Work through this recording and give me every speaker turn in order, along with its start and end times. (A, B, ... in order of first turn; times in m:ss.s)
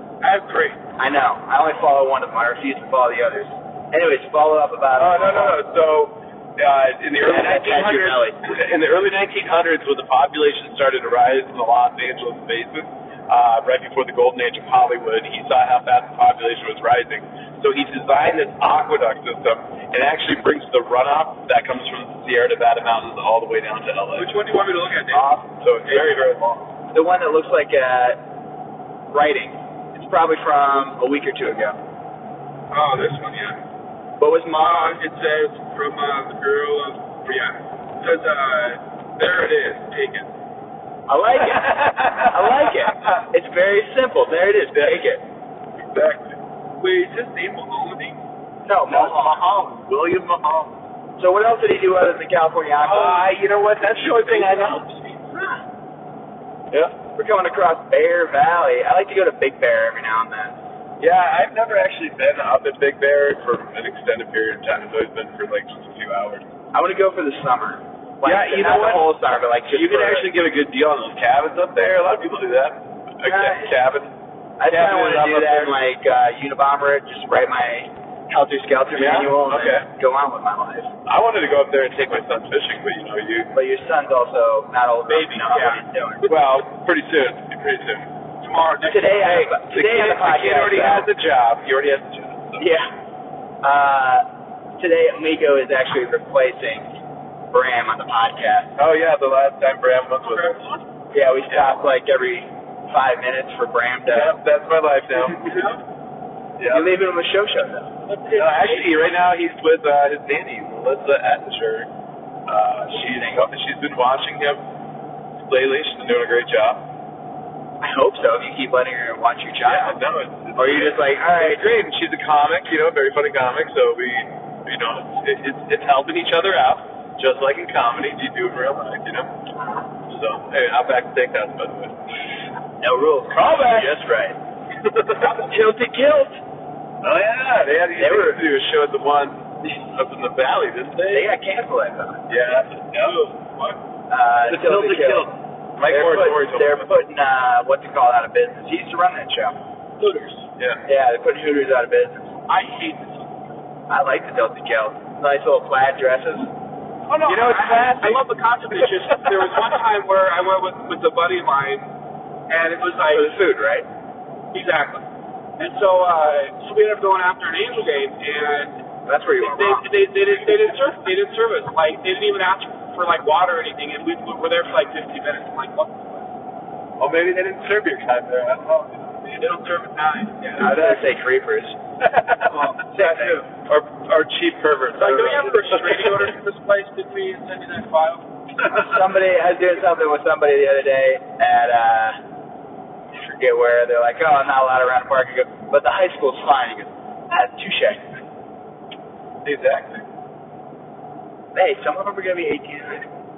0:00.2-0:00.8 A
0:01.0-0:05.6 B
0:05.0-0:24.3 C
0:07.2-0:08.4 B
0:24.2-0:26.2 A
0:25.4-0:26.7 C
0:26.9-0:28.2 B
0:29.1-0:31.8 B
0:32.7-0:33.6 A
0:34.2-0:35.0 B
0:34.6-0:40.3 A
0:41.1-0:45.2 B
0:41.4-0:42.7 C
0:45.9-0:46.4 C
0:46.8-0:48.2 A
0:48.6-0:49.4 B
0:48.9-0:50.7 C
0:51.2-0:53.2 B
0:52.8-0:54.8 C
0:53.7-0:55.6 A
0:57.1-1:00.6 B
1:01.0-1:06.4 C
1:06.7-1:10.3 B
1:08.2-1:09.1 C
1:09.7-1:14.1 C
1:13.2-1:13.7 B
1:14.6-1:20.9 B
1:14.6-1:15.7 C
1:18.9-1:19.8 C
1:21.0-1:23.5 C
1:23.5-1:26.3 B
1:25.1-1:25.8 A
1:26.2-1:28.1 C
1:28.4-1:29.4 A
1:28.9-1:31.1 B
1:29.2-1:32.6 C
1:32.6-1:32.9 B
1:33.6-1:34.2 B
1:34.8-1:36.9 B
1:37.5-1:38.7 B
1:38.8-1:40.6 C
1:40.2-1:40.8 A
1:41.1-1:44.4 B
1:41.5-1:41.8 C
1:44.1-1:45.7 C
1:45.4-1:45.8 A
1:46.6-1:46.9 C
1:46.7-1:47.9 B
1:48.0-1:49.0 A
1:48.3-1:51.9 C
1:52.5-1:54.6 C
1:55.4-1:56.8 C
1:57.8-2:00.0 B
1:59.6-2:09.3 C
2:00.6-2:01.7 B
2:10.1-2:11.9 C
2:12.8-2:14.4 B
2:13.5-2:13.9 C
2:14.8-2:15.3 C
2:15.2-2:15.6 A
2:15.2-2:16.4 B
2:17.0-2:21.3 C
2:18.0-2:18.4 B
2:21.1-2:22.3 B
2:22.3-2:23.2 C
2:22.9-2:23.8 A
2:24.1-2:25.3 B
2:24.5-2:26.9 C
2:25.8-2:29.6 B
2:30.0-2:30.5 A
2:30.8-2:32.3 B
2:32.5-2:33.5 A
2:33.9-2:36.5 B
2:37.1-2:41.9 A
2:37.2-2:38.2 C
2:42.5-2:43.3 A
2:43.1-2:43.9 B
2:44.5-2:45.0 A
2:45.6-2:48.8 A
2:49.1-2:49.8 B
2:49.4-2:56.3 A
2:57.0-2:59.3 C
2:59.3-3:01.0 A
3:00.6-3:01.8 B
3:02.0-3:06.3 C
3:02.4-3:03.4 A
3:02.9-3:03.4 B
3:04.9-3:08.2 A
3:08.6-3:12.2 B
3:13.1-3:18.0 B
3:19.4-3:20.0 C
3:21.5-3:23.1 B